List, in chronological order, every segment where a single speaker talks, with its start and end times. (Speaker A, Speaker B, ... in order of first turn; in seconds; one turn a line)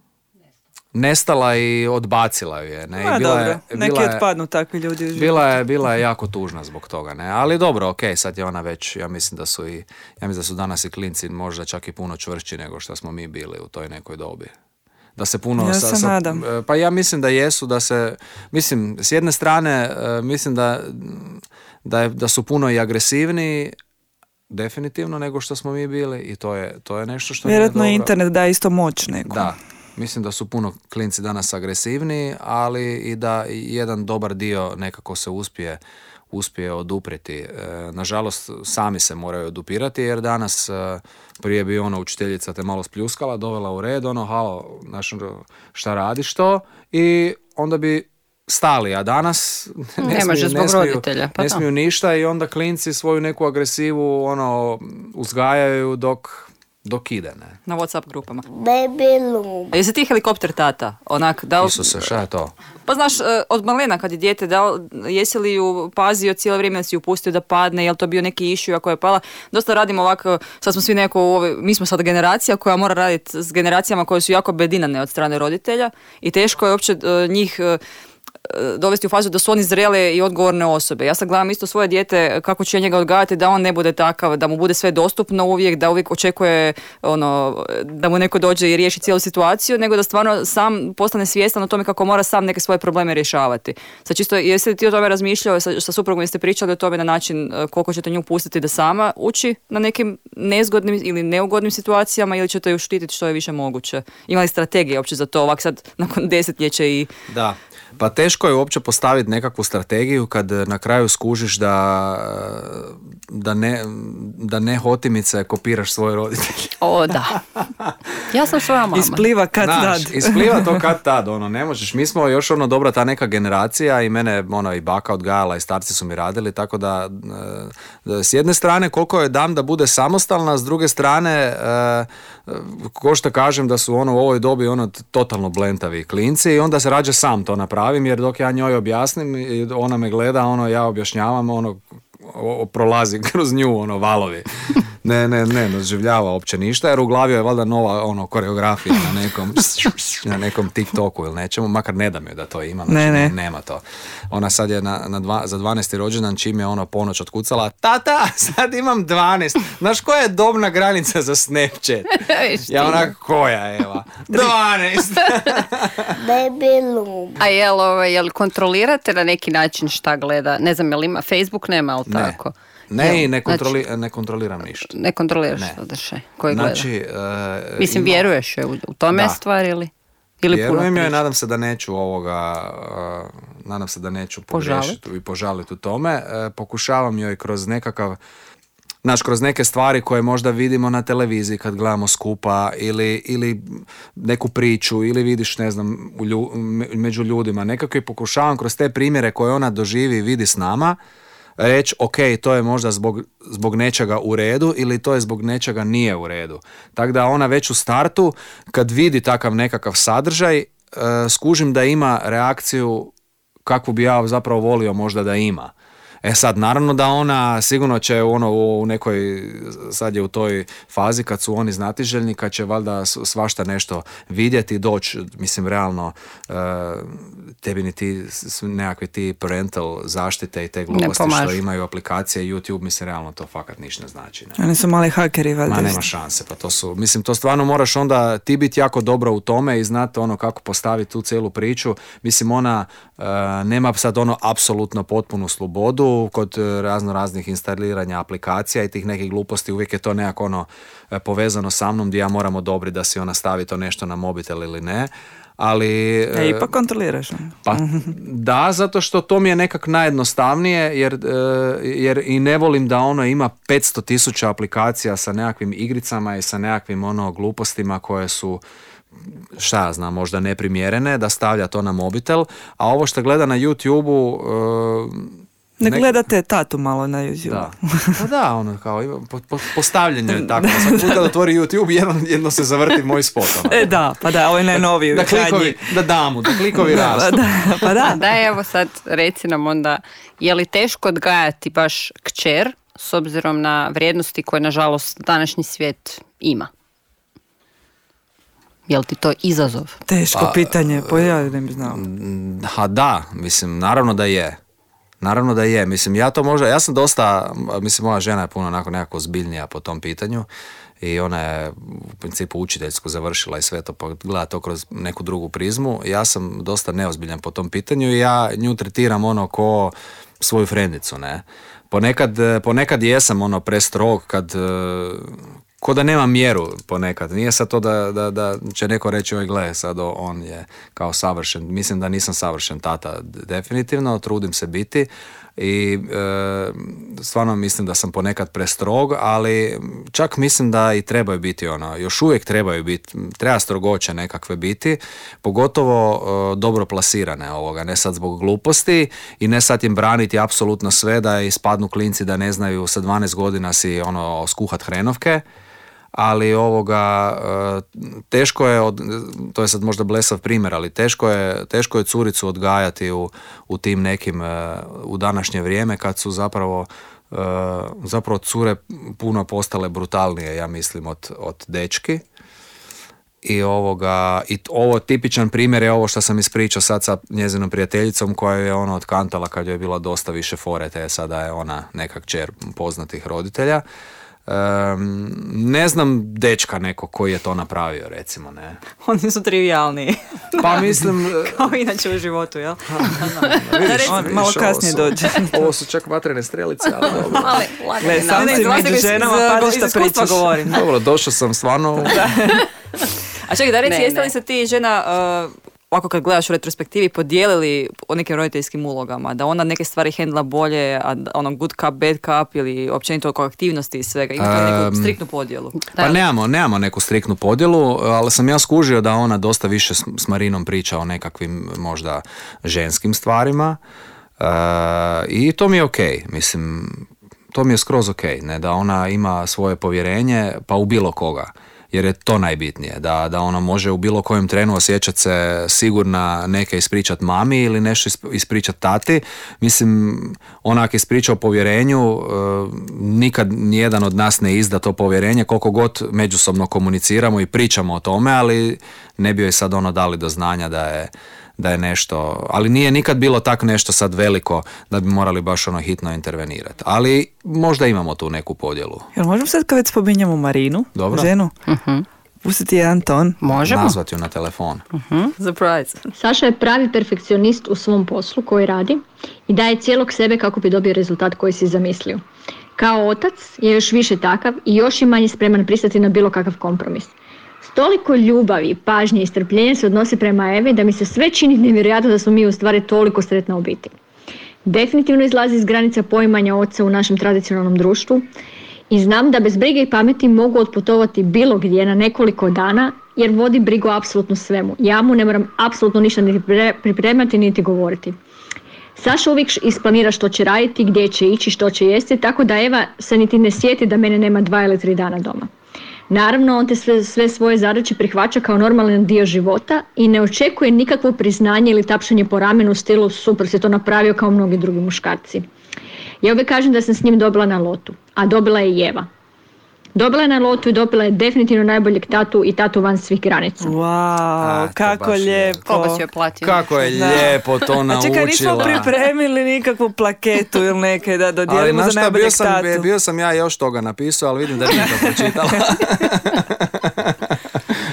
Speaker A: 0.9-4.2
Speaker B: 3.0-5.3
Speaker A: 5.1-14.5
Speaker A: 15.2-23.7
Speaker B: 15.6-16.4
Speaker A: 24.5-28.1
Speaker B: 27.4-29.5
Speaker A: 29.3-57.6
Speaker C: 50.0-51.6
Speaker D: 57.6-58.5
Speaker E: 58.5-59.7
Speaker D: 59.7-62.1
Speaker A: 61.6-62.5
Speaker D: 62.9-77.8
Speaker D: 78.5-107.1
Speaker A: 107.3-117.9
Speaker C: 116.8-117.4
Speaker C: 118.3-119.3
Speaker B: 118.9-120.8
Speaker A: 119.6-166.2
Speaker B: 152.9-153.3
Speaker C: 162.1-163.1
Speaker E: 166.1-167.4
Speaker C: 167.4-173.8
Speaker A: 172.1-172.4
Speaker A: 172.9-174.9
Speaker C: 174.8-176.9
Speaker A: 176.5-178.3
Speaker C: 177.8-179.9
Speaker A: 179.1-179.4
Speaker C: 180.4-181.2
Speaker A: 180.5-188.2
Speaker C: 184.5-185.0
Speaker A: 189.0-201.0
Speaker A: 201.6-213.1
Speaker A: 213.6-215.7
Speaker A: 216.2-234.6
Speaker C: 230.9-231.6
Speaker B: 234.6-236.0
Speaker A: 235.7-256.7
Speaker B: 256.3-258.1
Speaker A: 257.6-268.6
Speaker A: 269.2-276.1
Speaker B: 275.8-278.2
Speaker A: 277.4-283.9
Speaker B: 280.3-281.3
Speaker B: 283.6-285.8
Speaker A: 284.7-288.0
Speaker B: 286.7-288.2
Speaker C: 288.0-296.7
Speaker C: 298.9-300.0
Speaker B: 300.1-302.0
Speaker A: 300.3-304.6
Speaker A: 305.2-310.5
Speaker A: 311.0-355.4
Speaker A: 356.1-372.2
Speaker A: 373.4-383.8
Speaker A: 384.4-388.8
Speaker D: 389.0-394.5
Speaker A: 390.6-391.7
Speaker A: 392.9-397.6
Speaker B: 394.0-395.7
Speaker C: 397.3-398.9
Speaker B: 398.0-400.7
Speaker D: 398.3-400.8
Speaker A: 400.7-402.2
Speaker D: 403.4-415.8
Speaker C: 403.9-404.3
Speaker A: 414.4-415.2
Speaker C: 415.8-416.2
Speaker A: 415.9-423.8
Speaker A: 424.4-459.1
Speaker B: 459.1-461.5
Speaker A: 460.9-461.3
Speaker C: 461.7-462.1
Speaker B: 462.4-463.4
Speaker C: 463.4-464.0
Speaker A: 463.6-464.8
Speaker C: 464.9-465.3
Speaker D: 465.4-466.1
Speaker F: 466.1-472.2
Speaker F: 472.8-483.9
Speaker F: 484.6-488.2
Speaker F: 488.9-498.1
Speaker F: 498.9-505.5
Speaker F: 506.1-515.5
Speaker F: 516.2-519.1
Speaker F: 520.0-523.7
Speaker B: 523.6-526.0
Speaker A: 524.4-525.6
Speaker C: 525.6-527.3
Speaker A: 526.4-528.9
Speaker B: 526.9-532.9
Speaker A: 531.5-537.4
Speaker B: 534.8-535.8